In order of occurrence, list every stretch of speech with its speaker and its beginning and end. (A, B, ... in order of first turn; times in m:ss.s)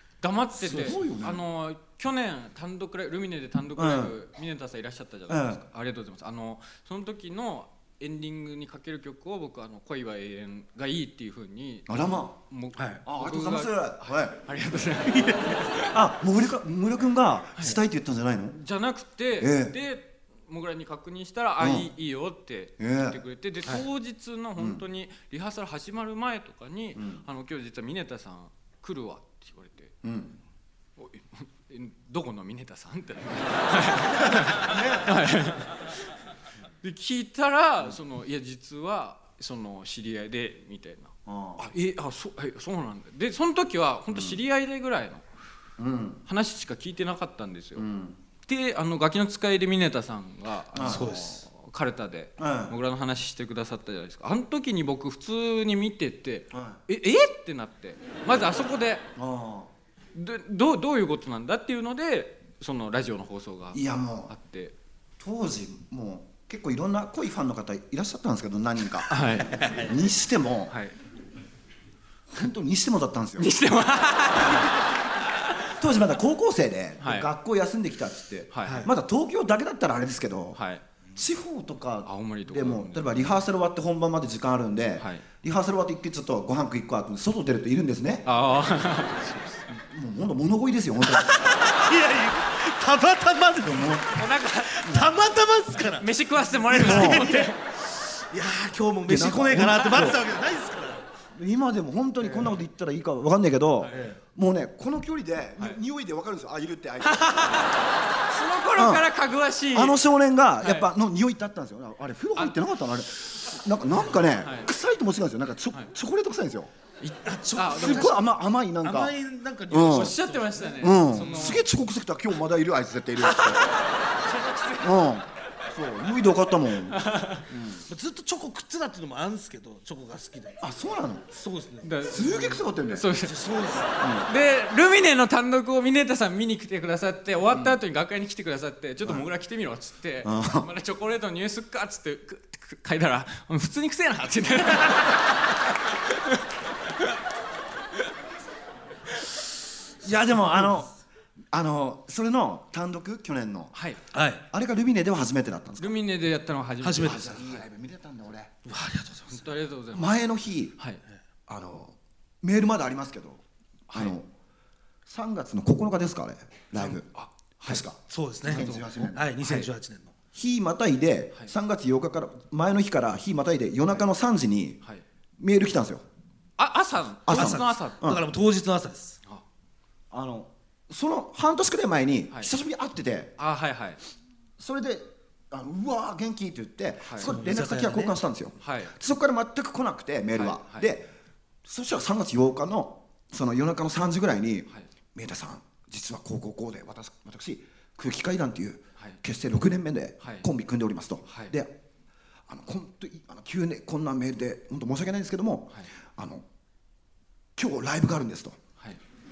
0:00.2-0:15.9 A
0:00.6-0:01.4 B
0:03.8-0:04.2 B
0:05.3-0:05.6 B
0:11.9-0:12.4 B
0:13.0-0:14.4 B
0:15.1-0:15.6 C
0:15.9-0:18.6 B
0:18.5-0:29.9 A
0:19.4-0:19.8 B
0:21.6-0:21.9 B
0:22.8-0:23.2 B
0:24.6-0:24.8 B
0:27.0-0:27.2 B
0:30.0-0:30.4 B
0:31.0-0:35.8 A
0:34.3-0:35.1 B
0:36.8-0:45.2 A
0:41.3-0:41.7 B
0:44.1-0:44.4 B
0:45.8-0:46.2 B
0:46.3-0:47.9 A
0:47.8-0:48.2 B
0:48.5-0:59.0 A
0:50.7-0:51.4 B
0:50.8-0:51.4 C
0:52.4-0:52.8 B
0:56.5-0:56.8 B
0:59.2-0:59.7 B
1:00.1-1:04.7 A
1:03.7-1:04.3 B
1:05.2-1:09.1 B
1:09.1-1:09.6 A
1:09.5-1:09.9 C
1:09.8-1:10.8 B
1:10.7-1:11.0 A
1:12.3-1:13.6 B
1:13.4-1:14.7 A
1:15.8-1:20.6 B
1:17.0-1:17.3 A
1:18.5-1:18.9 A
1:18.6-1:18.9 C
1:20.5-1:20.8 A
1:21.2-1:28.3 B
1:22.1-1:23.3 A
1:25.0-1:25.2 A
1:28.2-1:29.7 A
1:29.7-1:31.4 B
1:31.7-1:41.0 C
1:33.6-1:34.1 B
1:34.2-1:34.9 A
1:35.9-1:37.6 A
1:36.8-1:37.3 B
1:39.1-1:40.2 B
1:41.4-1:47.6 B
1:42.2-1:42.6 C
1:43.9-1:44.2 C
1:47.0-1:47.8 A
1:48.3-1:50.0 A
1:48.8-1:49.1 B
1:49.7-1:56.7 B
1:50.6-1:50.9 A
1:52.4-1:52.6 A
1:54.4-1:54.7 A
1:57.0-1:58.1 A
1:57.2-1:58.3 C
1:57.8-1:59.2 B
1:58.8-2:01.6 C
1:59.7-2:00.2 B
1:59.9-2:01.6 A
2:00.8-2:03.7 B
2:03.2-2:04.9 A
2:04.8-2:07.8 B
2:06.9-2:07.4 A
2:07.9-2:10.6 C
2:10.6-2:11.3 B
2:11.3-2:11.9 C
2:11.8-2:13.4 A
2:12.1-2:13.0 B
2:13.1-2:14.0 C
2:14.0-2:14.3 B
2:14.2-2:25.3 A
2:17.5-2:17.8 B
2:19.0-2:19.3 B
2:20.2-2:20.7 B
2:30.0-2:30.9 B
2:30.3-2:30.7 C
2:31.5-2:33.7 B
2:33.7-2:34.0 A
2:34.1-2:34.4 C
2:34.5-2:36.0 B
2:35.8-2:37.4 A
2:36.8-2:37.4 C
2:37.0-2:38.5 B
2:38.6-2:39.5 C
2:39.3-2:40.1 A
2:39.9-2:40.8 B
2:41.5-2:44.3 B
2:43.9-2:44.2 A
2:45.1-2:49.2 B
2:47.6-2:50.1 C
2:48.5-2:49.7 A
2:50.3-2:54.8 B
2:55.4-2:56.0 B
2:56.6-2:58.0 A
2:57.3-2:58.2 B
2:57.3-2:59.2 C
3:00.1-3:03.4 B
3:03.4-3:04.0 A
3:04.6-3:11.1 B
3:07.0-3:07.4 A
3:07.2-3:08.2 C
3:08.6-3:08.9 A
3:10.3-3:10.9 A
3:11.6-3:21.8 B
3:20.2-3:20.5 A
3:21.3-3:21.5 A
3:22.5-3:26.4 B
3:27.6-3:28.6 B